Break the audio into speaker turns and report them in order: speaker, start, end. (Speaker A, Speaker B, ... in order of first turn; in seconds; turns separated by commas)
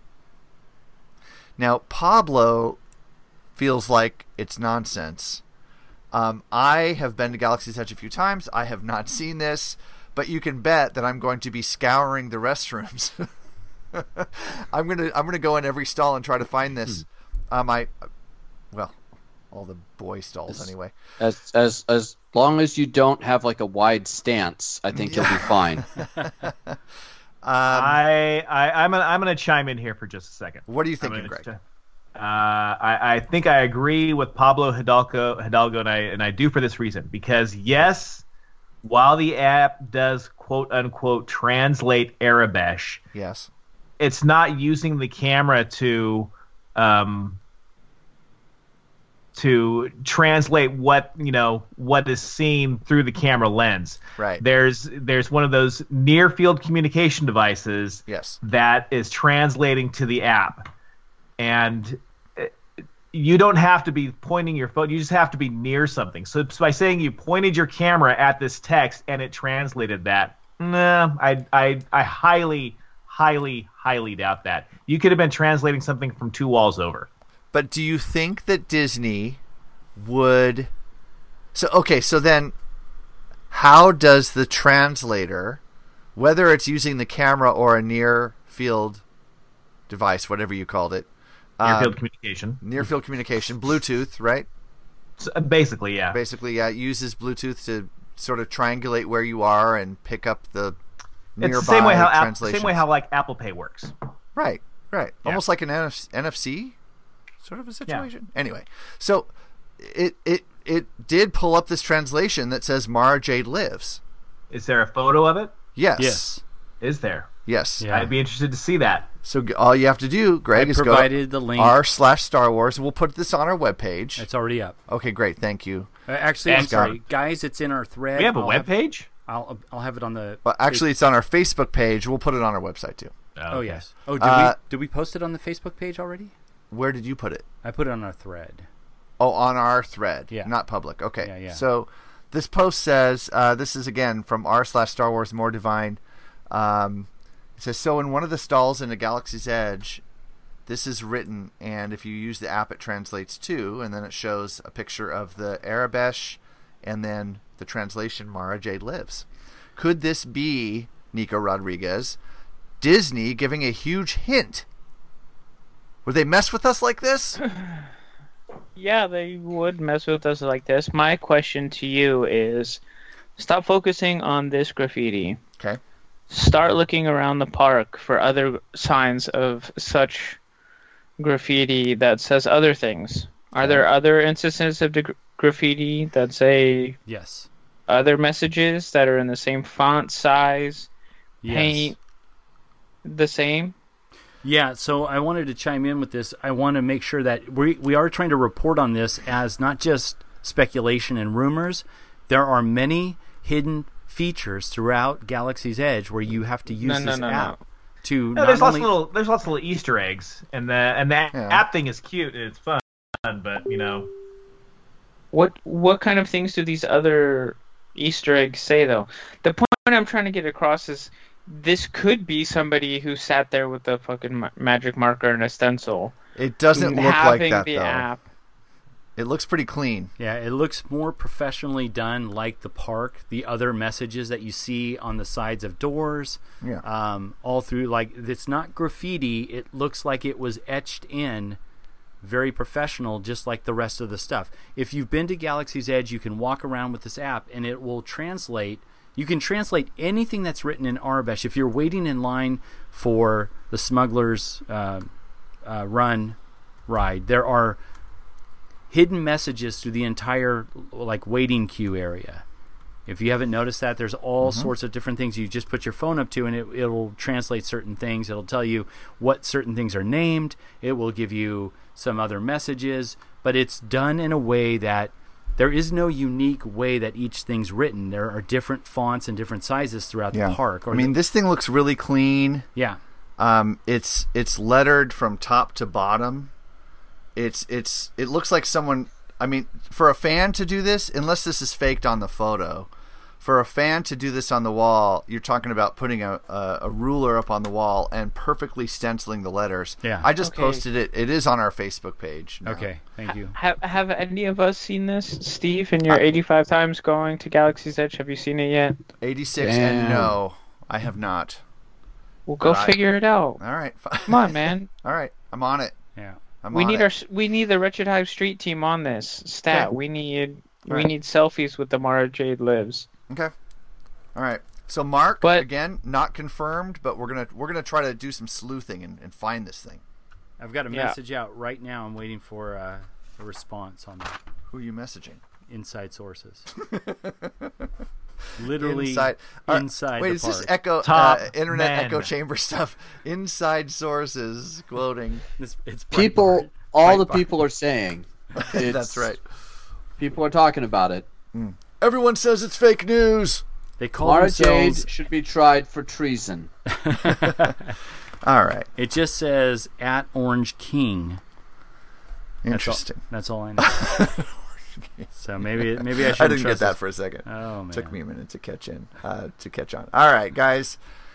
Speaker A: 1.6-2.8, Speaker A: 3.6-5.4, Speaker A: 6.1-13.3, Speaker A: 13.9-17.9, Speaker A: 18.7-19.0, Speaker A: 19.5-20.9, Speaker B: 21.2-25.9, Speaker A: 24.9-26.8, Speaker A: 27.4-28.0, Speaker C: 27.7-31.6, Speaker A: 30.7-31.5, Speaker C: 32.1-38.2, Speaker C: 38.8-43.0, Speaker A: 43.1-43.5, Speaker C: 44.0-47.4, Speaker C: 49.4-60.7, Speaker A: 54.2-54.4, Speaker A: 58.1-58.4, Speaker C: 61.4-62.5, Speaker C: 63.1-77.1, Speaker A: 77.5-79.4, Speaker A: 80.0-80.7, Speaker A: 81.5-82.5, Speaker A: 83.5-85.6, Speaker A: 86.2-89.0, Speaker A: 89.9-91.1, Speaker A: 91.6-92.0, Speaker C: 91.6-92.6, Speaker A: 92.6-94.5, Speaker C: 95.2-96.2, Speaker A: 96.1-100.8, Speaker A: 101.4-102.8, Speaker C: 101.4-103.9, Speaker A: 104.3-106.8, Speaker A: 107.4-114.0, Speaker C: 114.5-115.5, Speaker A: 115.8-116.4, Speaker D: 116.0-116.4, Speaker C: 116.8-117.3, Speaker A: 117.5-117.9, Speaker D: 117.8-118.1, Speaker C: 117.9-119.1, Speaker A: 119.2-124.3, Speaker D: 120.5-121.8, Speaker D: 124.2-124.8, Speaker A: 124.9-125.9, Speaker D: 126.1-128.7, Speaker C: 126.5-126.8, Speaker A: 126.5-127.0, Speaker C: 128.2-129.1, Speaker D: 129.3-130.9, Speaker A: 130.4-133.1, Speaker C: 133.4-133.8, Speaker D: 133.5-136.3, Speaker A: 134.2-134.6, Speaker A: 136.7-137.5, Speaker D: 137.6-138.7, Speaker A: 139.2-150.0, Speaker D: 141.2-141.6, Speaker A: 150.7-162.2, Speaker A: 162.8-164.7, Speaker A: 166.1-167.4, Speaker E: 168.8-172.8, Speaker E: 173.4-175.4, Speaker E: 176.3-180.4, Speaker E: 181.2-187.0, Speaker D: 187.1-187.5, Speaker E: 187.9-190.9, Speaker D: 191.4-191.9, Speaker E: 191.5-192.0, Speaker E: 193.0-193.7, Speaker D: 194.4-208.9, Speaker E: 206.8-207.6, Speaker C: 208.4-214.1, Speaker A: 211.3-211.6, Speaker E: 215.3-226.2, Speaker A: 226.4-228.1, Speaker E: 226.7-228.2, Speaker A: 229.2-230.1, Speaker D: 230.2-241.6, Speaker D: 242.2-255.1, Speaker D: 255.7-256.4, Speaker D: 256.9-257.8, Speaker D: 258.9-262.4, Speaker D: 263.1-281.2, Speaker A: 264.4-264.7, Speaker A: 280.3-282.7, Speaker A: 283.4-286.5, Speaker A: 287.4-292.9, Speaker A: 293.4-302.9, Speaker E: 300.4-300.8, Speaker D: 302.6-303.6, Speaker E: 303.4-309.0, Speaker A: 309.2-311.6, Speaker B: 309.6-310.4, Speaker E: 312.5-313.6, Speaker A: 312.6-313.0, Speaker A: 313.6-315.9, Speaker E: 314.3-314.9, Speaker A: 316.6-317.1, Speaker E: 316.7-323.1, Speaker A: 324.4-330.0, Speaker D: 330.6-334.4, Speaker A: 334.7-335.4, Speaker D: 335.7-336.7, Speaker A: 336.8-337.9, Speaker D: 338.6-340.7, Speaker A: 338.6-345.4, Speaker C: 341.0-342.3, Speaker D: 345.6-346.7, Speaker B: 346.1-349.3, Speaker A: 347.0-347.5, Speaker A: 348.6-349.4, Speaker B: 350.2-351.3, Speaker A: 351.5-353.6, Speaker D: 354.0-355.1, Speaker B: 354.2-356.7, Speaker D: 356.9-358.0, Speaker A: 357.2-357.8, Speaker A: 358.4-358.9, Speaker D: 359.0-361.4, Speaker A: 362.6-363.2, Speaker D: 362.7-364.1, Speaker A: 363.8-371.0, Speaker D: 365.4-368.2